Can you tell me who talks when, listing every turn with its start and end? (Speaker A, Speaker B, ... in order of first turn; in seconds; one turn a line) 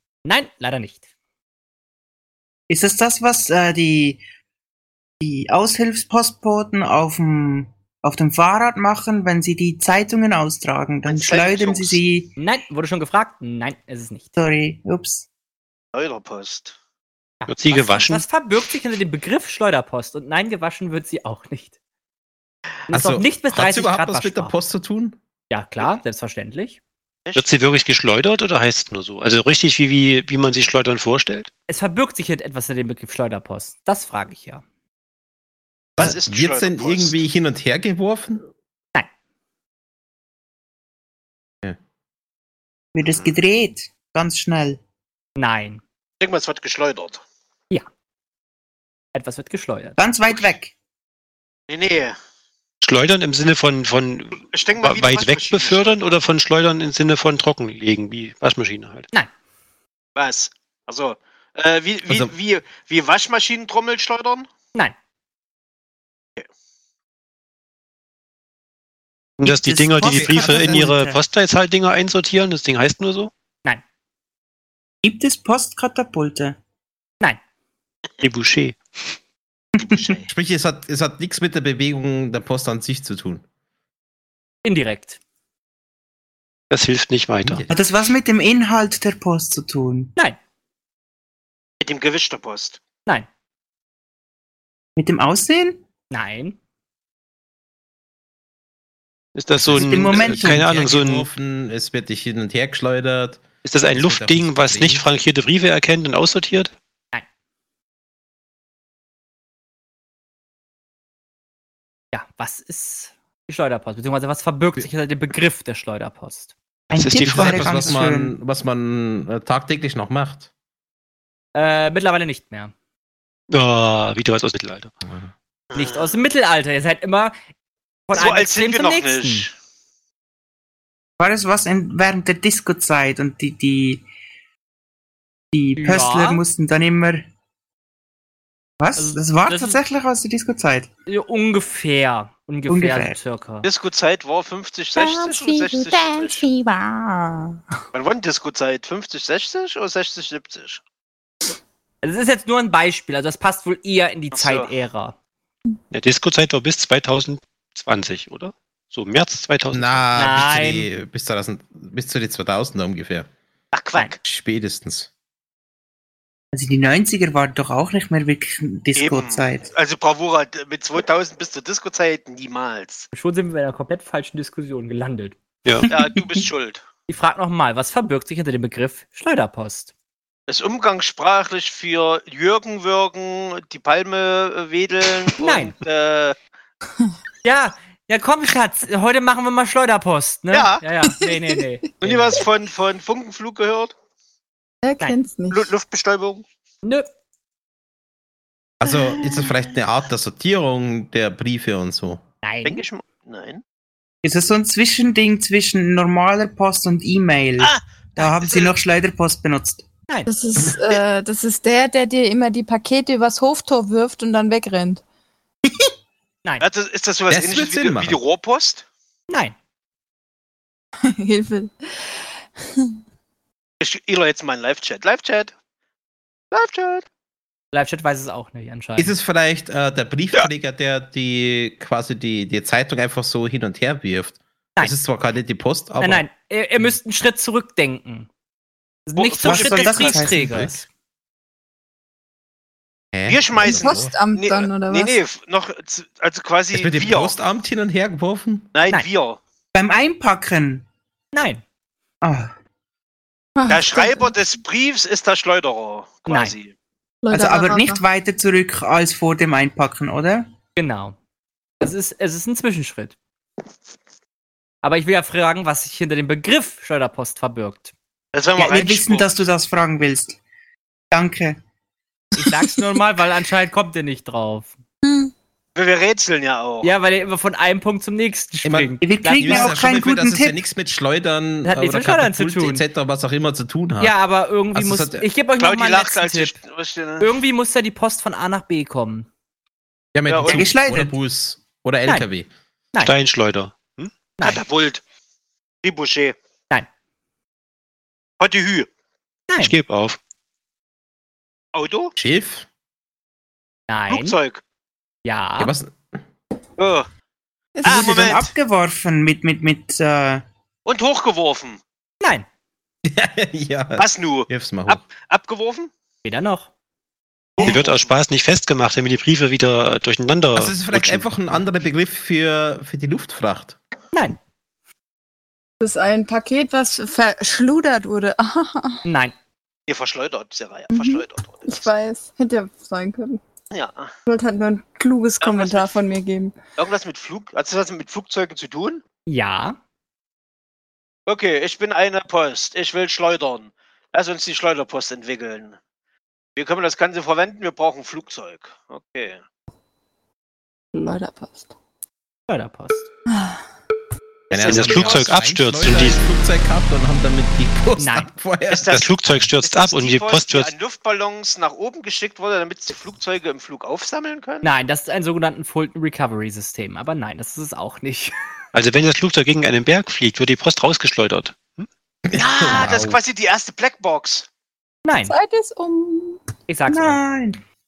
Speaker A: 0.2-1.0
Speaker B: 2.7-4.2
Speaker B: 5.2-12.3
Speaker C: 11.0-12.0
Speaker A: 12.4-14.2
Speaker B: 14.4-15.2
Speaker C: 15.9-16.8
Speaker A: 17.4-21.7
Speaker D: 17.5-18.2
Speaker E: 22.9-25.2
Speaker A: 22.9-24.5
Speaker A: 25.5-26.8
Speaker D: 27.4-31.5
Speaker A: 31.7-34.6
Speaker E: 36.0-38.4
Speaker C: 36.0-37.1
Speaker B: 42.9-44.8
Speaker A: 45.4-45.8
Speaker C: 46.2-47.2
Speaker A: 49.1-50.0
Speaker B: 50.0-50.7
Speaker C: 51.7-52.1
Speaker D: 52.8-59.1
Speaker C: 54.5-56.1
Speaker C: 60.2-64.5
Speaker E: 62.1-62.3
Speaker D: 69.4-73.3
Speaker B: 69.4-71.0
Speaker E: 70.0-70.9
Speaker A: 70.8-71.2
Speaker B: 75.0-76.6
Speaker D: 78.2-79.1
Speaker B: 79.8-80.2
Speaker C: 79.8-80.3
Speaker E: 80.3-83.4
Speaker A: 84.6-85.2
Speaker D: 86.7-87.7
Speaker E: 87.4-87.8
Speaker B: 87.7-90.1
Speaker C: 91.8-92.8
Speaker B: 95.0-95.8
Speaker A: 96.1-96.6
Speaker D: 99.3-101.3
Speaker E: 99.6-105.0
Speaker B: 99.7-100.7
Speaker D: 103.6-106.7
Speaker A: 112.1-116.5
Speaker B: 116.9-118.3
Speaker D: 116.9-117.9
Speaker E: 117.1-120.5
Speaker A: 121.5-122.7
Speaker D: 123.5-124.9
Speaker C: 125.7-126.2
Speaker A: 125.7-127.3
Speaker A: 128.1-129.5
Speaker C: 128.1-129.5
Speaker B: 131.2-134.1
Speaker B: 135.5-137.2
Speaker A: 135.8-136.4
Speaker B: 138.8-140.9
Speaker A: 138.9-139.8
Speaker A: 141.1-143.7
Speaker B: 142.7-143.2
Speaker C: 143.6-146.5
Speaker F: 144.9-147.6
Speaker C: 147.9-150.8
Speaker A: 152.0-155.2
Speaker C: 154.3-154.7
Speaker D: 155.9-160.1
Speaker E: 159.7-163.3
Speaker A: 160.2-160.9
Speaker C: 163.7-164.2
Speaker E: 164.2-165.1
Speaker B: 166.5-169.7
Speaker C: 168.9-173.1
Speaker A: 173.1-175.3
Speaker C: 175.9-176.8
Speaker A: 177.1-179.9
Speaker C: 180.5-186.3
Speaker A: 185.4-185.7
Speaker A: 187.4-192.4
Speaker C: 190.5-190.8
Speaker C: 192.0-193.9
Speaker F: 194.8-195.7
Speaker C: 195.5-196.4
Speaker E: 198.8-202.2
Speaker A: 202.4-202.8
Speaker C: 202.6-203.6
Speaker B: 204.2-209.8
Speaker C: 207.6-208.7
Speaker F: 210.3-215.0
Speaker C: 216.6-218.8
Speaker E: 217.3-218.2
Speaker A: 219.3-219.5
Speaker F: 221.1-221.7
Speaker C: 223.8-225.5
Speaker C: 226.5-227.1
Speaker A: 227.7-229.1
Speaker E: 229.0-236.2
Speaker A: 236.0-238.3
Speaker A: 239.1-240.9
Speaker C: 239.2-240.3
Speaker B: 239.4-240.5
Speaker E: 240.4-240.7
Speaker E: 243.1-244.2
Speaker C: 243.3-247.3
Speaker F: 243.6-245.2
Speaker E: 246.7-248.7
Speaker C: 248.7-249.4
Speaker B: 249.7-250.8
Speaker A: 251.3-251.6
Speaker B: 252.2-252.5
Speaker F: 253.6-254.3
Speaker C: 253.7-256.7
Speaker A: 256.3-256.5
Speaker F: 257.2-258.0
Speaker B: 257.3-260.5
Speaker A: 260.8-261.1
Speaker A: 261.8-263.1
Speaker A: 264.8-267.9
Speaker C: 268.3-269.4
Speaker B: 268.6-270.4
Speaker B: 271.1-271.6
Speaker A: 272.4-274.8
Speaker F: 275.0-275.3
Speaker C: 275.7-276.9
Speaker A: 276.8-279.7
Speaker E: 278.6-284.1
Speaker B: 279.0-280.6
Speaker A: 281.6-282.8
Speaker A: 284.0-286.5
Speaker E: 284.7-285.2
Speaker C: 285.6-287.4
Speaker A: 287.2-289.3
Speaker E: 290.1-292.5
Speaker C: 290.3-290.7
Speaker B: 290.4-291.1
Speaker D: 293.0-294.1
Speaker C: 294.4-295.0
Speaker C: 295.8-296.3
Speaker C: 298.4-298.9
Speaker A: 299.5-299.7
Speaker D: 299.6-300.2
Speaker C: 301.7-302.1
Speaker E: 302.1-302.6
Speaker A: 303.9-304.4
Speaker C: 304.1-304.6
Speaker A: 305.2-305.7
Speaker E: 305.6-306.1
Speaker C: 306.8-307.1
Speaker F: 307.8-308.4
Speaker C: 307.8-308.5
Speaker B: 307.8-310.4
Speaker C: 310.9-311.8
Speaker A: 312.2-312.5
Speaker E: 313.0-315.0
Speaker C: 313.9-315.9
Speaker A: 316.2-316.7
Speaker C: 317.6-318.1
Speaker D: 317.6-321.6
Speaker E: 320.5-323.8
Speaker F: 325.8-329.0
Speaker A: 329.0-329.3
Speaker C: 329.9-331.9
Speaker F: 330.9-333.4
Speaker C: 333.7-334.1
Speaker F: 334.2-336.6
Speaker C: 335.4-335.9
Speaker C: 336.8-339.0
Speaker A: 339.3-339.8
Speaker C: 341.3-345.8
Speaker C: 346.6-349.4
Speaker F: 350.9-351.7
Speaker A: 352.5-353.1
Speaker F: 353.3-353.6
Speaker C: 354.5-355.2
Speaker E: 354.5-359.0
Speaker D: 354.6-356.2
Speaker A: 358.0-358.3
Speaker C: 358.7-364.7
Speaker D: 358.9-360.7
Speaker A: 364.6-368.3
Speaker D: 368.7-371.9
Speaker E: 372.3-373.2
Speaker C: 372.3-374.5
Speaker A: 375.0-375.4
Speaker F: 375.3-376.4
Speaker A: 376.7-377.2
Speaker B: 376.9-377.6